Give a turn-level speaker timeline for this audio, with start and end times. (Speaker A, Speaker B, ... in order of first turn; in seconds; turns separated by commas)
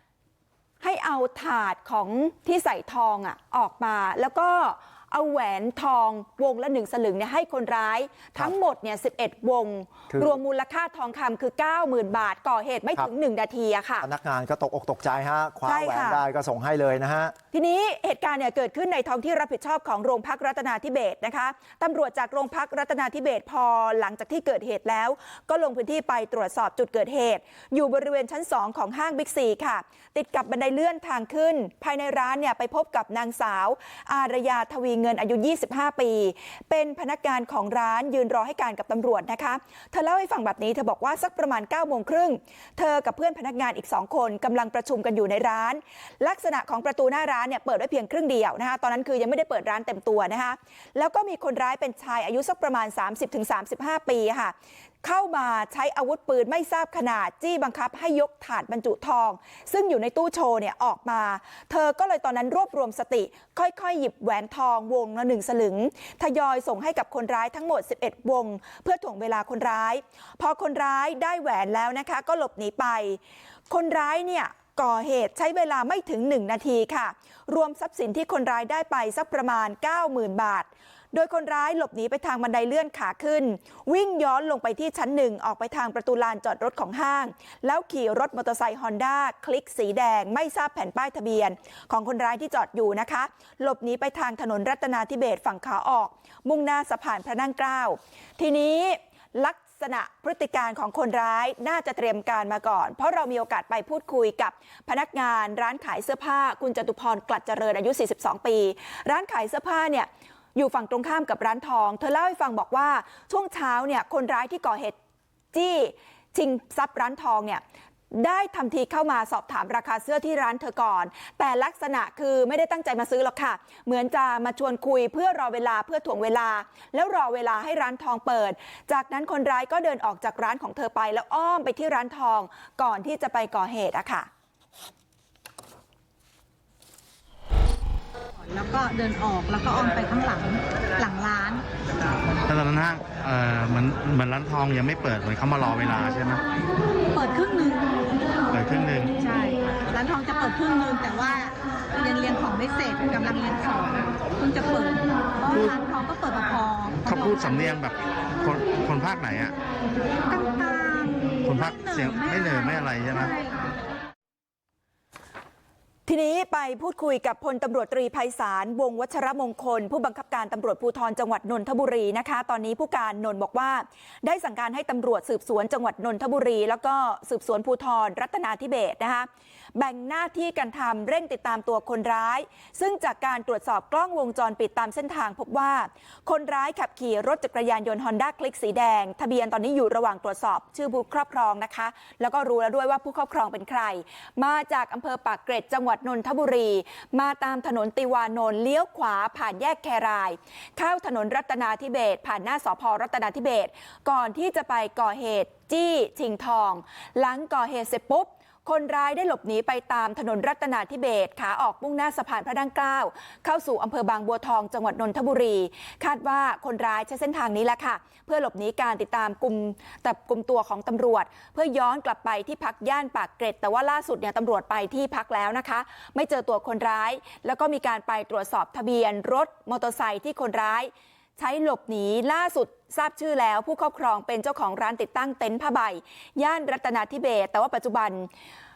Speaker A: 0.8-14.1, Speaker B: 14.0-17.3, Speaker A: 15.6-16.2, Speaker A: 17.5-73.2, Speaker A: 73.7-115.0, Speaker A: 115.5-134.3, Speaker C: 138.4-141.6, Speaker D: 142.5-146.4, Speaker C: 147.1-147.9, Speaker D: 148.5-149.1, Speaker C: 149.2-157.6, Speaker D: 157.1-159.5, Speaker C: 160.3-163.7, Speaker D: 161.4-163.3, Speaker A: 166.1-238.3